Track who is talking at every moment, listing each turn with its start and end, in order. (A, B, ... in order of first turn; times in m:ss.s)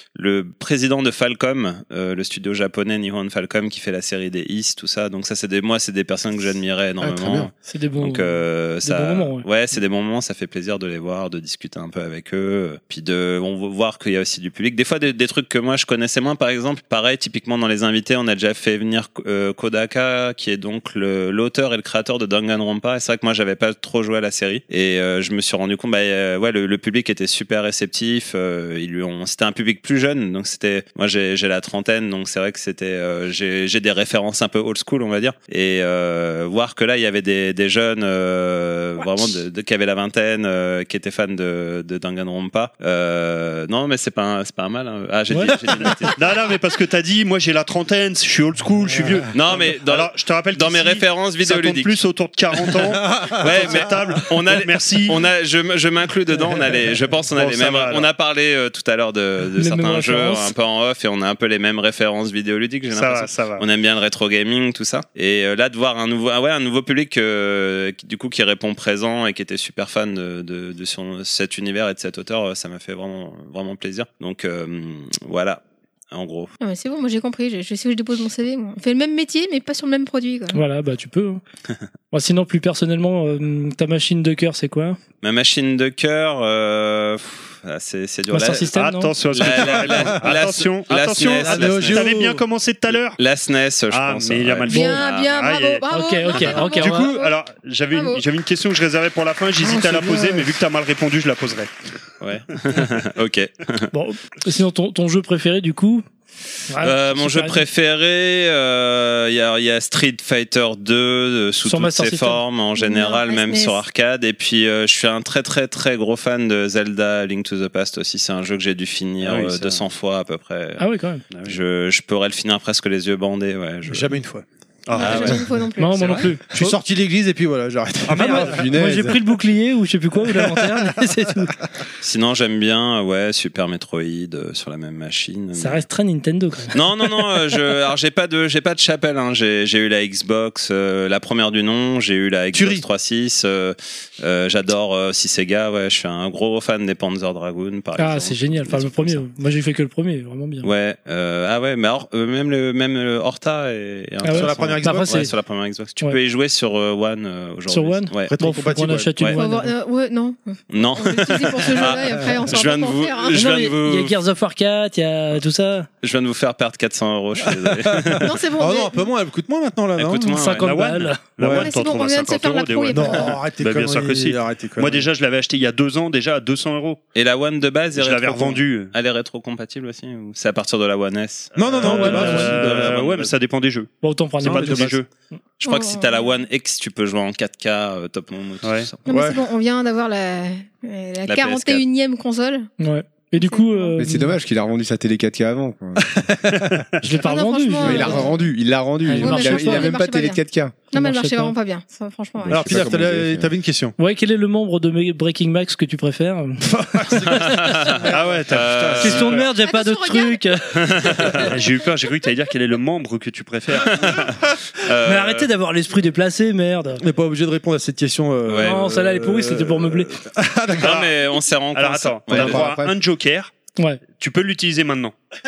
0:00.1-0:46.2 A
0:07.0-0:07.5 B
0:07.7-0:09.4 C
0:45.3-0:45.6 C
0:45.7-0:46.1 D
0:46.1-0:55.2 E
0:49.3-0:52.0 A
0:52.8-0:54.1 D
0:53.4-1:16.5 A
0:57.3-0:58.1 E
0:59.6-1:00.5 C
1:02.9-1:03.6 E
1:16.6-1:20.6 F
1:20.5-1:21.4 C
1:22.1-1:25.0 C
1:25.2-1:28.7 A
1:28.3-1:29.1 C
1:28.7-1:33.2 E
1:29.3-1:32.1 A
1:29.6-1:30.4 D
1:31.4-1:32.4 D
1:33.2-1:35.3 A
1:33.9-1:35.9 E
1:34.7-1:37.4 F
1:35.9-1:37.1 C
1:36.4-1:41.8 E
1:37.9-1:38.2 F
1:42.2-1:43.9 A
1:43.9-1:46.0 C
1:46.7-1:47.6 C
1:46.8-2:00.8 A
1:51.6-1:52.4 C
1:52.8-1:53.8 F
1:59.2-1:59.8 E
2:00.8-2:01.2 C
2:01.3-2:01.6 E
2:01.4-2:04.1 A
2:03.9-2:04.4 D
2:04.9-2:05.4 E
2:04.9-2:06.2 F
2:05.0-2:05.4 A
2:05.8-2:06.8 C
2:06.0-2:06.3 E
2:06.5-2:08.6 D
2:08.1-2:08.7 E
2:08.1-2:11.6 C
2:08.4-2:09.2 B
2:10.3-2:10.9 D
2:12.0-2:15.8 A
2:15.6-2:16.8 C
2:16.7-2:29.2 A
2:22.5-2:22.8 D
2:28.0-2:30.7 C
2:30.6-2:38.4 A
2:34.2-2:35.3 C
2:34.3-2:35.3 D
2:37.7-2:39.7 C
2:38.2-2:39.4 D
2:39.4-2:43.4 F
2:40.7-2:44.1 A
2:43.3-2:45.9 C
2:46.0-2:48.4 A
2:47.4-2:50.4 D
2:48.2-2:49.0 F
2:50.0-2:50.7 A
2:50.3-2:51.2 C
2:50.6-2:57.0 E
2:51.4-2:51.7 D
2:51.4-2:53.4 F
2:52.9-2:55.1 D
2:57.1-3:03.3 A
2:57.9-2:58.9 E
3:01.6-3:03.0 D
3:01.6-3:05.1 E
3:01.9-3:02.5 C
3:04.0-3:04.9 C
3:04.4-3:05.0 D
3:05.6-3:09.0 A
3:05.6-3:06.3 F
3:08.6-3:08.9 E
3:09.1-3:12.7 F
3:09.1-3:09.4 D
3:11.3-3:11.8 A
3:12.8-3:14.4 C
3:13.4-3:14.0 F
3:14.0-3:16.2 B
3:16.1-3:16.8 D
3:17.0-3:18.3 C
3:17.2-3:18.5 F
3:17.8-3:20.8 B
3:19.0-3:20.0 C
3:19.2-3:22.9 F
3:20.9-3:21.6 C
3:22.4-3:23.5 B
3:22.5-3:24.0 D
3:24.0-3:28.0 C
3:26.6-3:29.4 D
3:27.4-3:29.4 A
3:28.1-3:29.5 E
3:29.0-3:30.7 C
3:29.6-3:31.3 F
3:30.7-3:31.5 A
3:31.5-3:34.3 E
3:33.9-3:35.5 A
3:35.0-3:37.0 C
3:37.0-3:41.1 D
3:38.4-3:38.8 A
3:38.6-3:40.2 C
3:40.8-3:42.7 A
3:40.8-3:41.1 E
3:41.7-3:43.5 E
3:42.3-3:42.9 B
3:44.1-3:45.2 E